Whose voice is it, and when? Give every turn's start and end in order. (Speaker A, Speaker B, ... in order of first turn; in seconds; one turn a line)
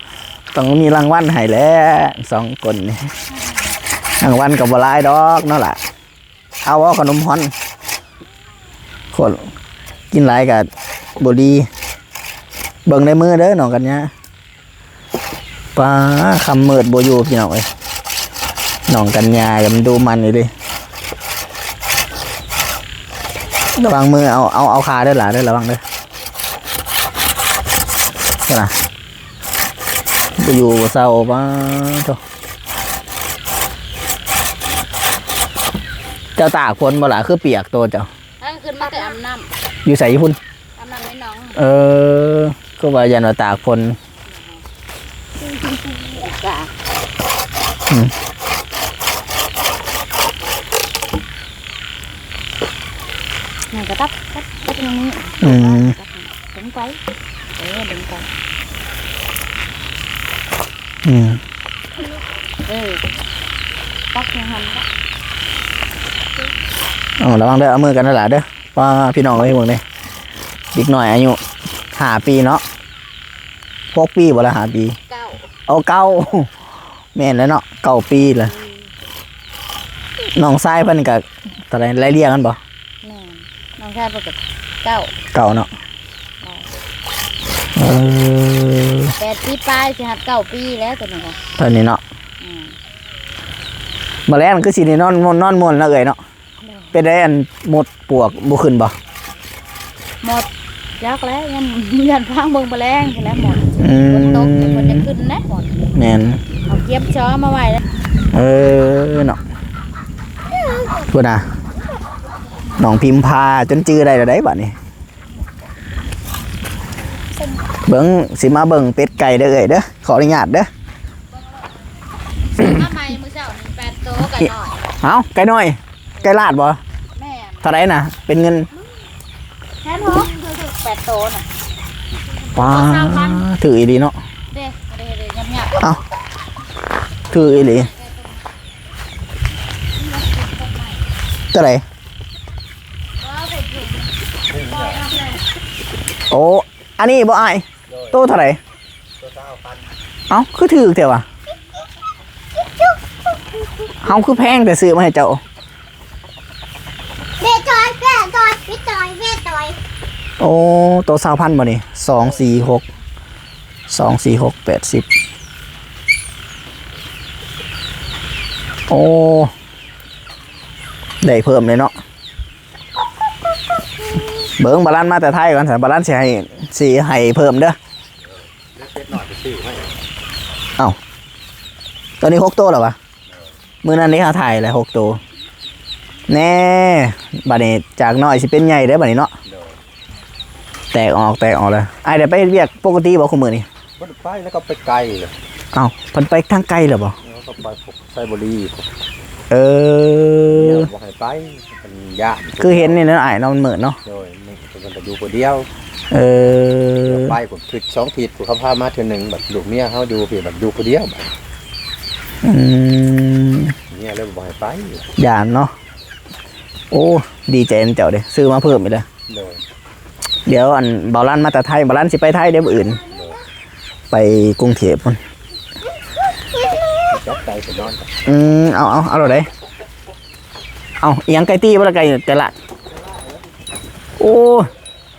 Speaker A: 0.5-3.1
Speaker A: 4.2-5.8
Speaker A: 6.6-7.5
Speaker A: 9.1-9.5
Speaker A: 10.1-11.7
Speaker A: 12.8-14.1
Speaker A: 15.7-17.7
Speaker A: 18.9-20.5
Speaker A: 23.8-25.8
Speaker A: 28.5-28.7
Speaker A: 30.4-32.2
Speaker A: 36.4-38.1
Speaker B: 38.4-39.5
Speaker A: 39.8-40.4
Speaker B: 40.8-41.6
Speaker A: 41.5-44.0
Speaker B: 44.3-44.6
Speaker B: 45.5-46.7
Speaker B: 53.7-57.0
Speaker A: 55.4-56.0
Speaker B: 57.5-58.3
Speaker A: 61.0-61.4
Speaker B: 62.6-63.0
Speaker B: 64.1-64.8
Speaker A: 67.2-69.8
Speaker A: 70.7-71.4
Speaker A: 71.9-72.6
Speaker A: 73.9-75.0
Speaker B: 75.1-75.5
Speaker A: 75.7-76.5
Speaker A: 77.1-78.5
Speaker B: 78.5-78.8
Speaker A: 80.3-82.6
Speaker B: 83.0-85.1
Speaker A: 85.3-85.7
Speaker B: 86.4-86.7
Speaker A: 87.8-89.1
Speaker B: 89.2-91.4
Speaker A: 91.6-92.0
Speaker B: 92.4-92.8
Speaker A: 94.3-96.2
Speaker B: 96.6-96.9
Speaker A: 96.9-98.9
Speaker B: 100.2-105.8
Speaker A: 103.8-105.1
Speaker A: 105.9-106.4
Speaker B: 106.7-107.8
Speaker A: 108.3-109.4
Speaker A: 111.1-111.5
Speaker A: 112.8-114.8
Speaker A: 117.9-120.7
Speaker B: 122.5-124.9
Speaker A: 122.6-122.8
Speaker A: 125.0-126.8
Speaker B: 127.1-127.7
Speaker A: 127.6-128.7
Speaker B: 129.8-131.5
Speaker B: 132.4-133.5
Speaker A: 132.5-134.2
Speaker B: 134.5-135.8
Speaker A: 137.3-137.9
Speaker B: 137.3-138.6
Speaker B: 139.9-141.1
Speaker A: 141.5-141.8
Speaker B: 143.2-145.4
Speaker C: 144.5-145.0
Speaker A: 146.3-148.6
Speaker C: 147.9-148.2
Speaker C: 149.2-149.8
Speaker A: 150.3-151.2
Speaker A: 154.0-155.4
Speaker D: 157.4-159.8
Speaker A: 160.4-162.8
Speaker A: 163.9-165.1
Speaker A: 168.9-169.5
Speaker A: 171.2-171.9
Speaker A: 174.6-177.8
Speaker C: 178.7-179.9
Speaker A: 182.2-183.0
Speaker A: 183.8-185.2
Speaker A: 186.3-189.3
Speaker C: 189.4-189.8
Speaker A: 190.9-193.7
Speaker C: 194.0-195.3
Speaker A: 195.7-197.2
Speaker C: 197.2-198.8
Speaker A: 199.5-200.9
Speaker C: 200.5-203.0
Speaker A: 202.6-204.0
Speaker C: 204.0-205.7
Speaker A: 206.1-207.3
Speaker C: 207.0-211.3
Speaker A: 212.4-213.7
Speaker C: 213.9-215.1
Speaker A: 215.2-215.7
Speaker A: 216.9-219.1
Speaker C: 219.3-219.6
Speaker A: 220.5-223.0
Speaker C: 223.1-223.4
Speaker A: 224.1-225.2
Speaker C: 227.1-228.1
Speaker A: 228.2-229.5
Speaker A: 231.0-232.5
Speaker C: 232.9-233.5
Speaker A: 234.2-234.7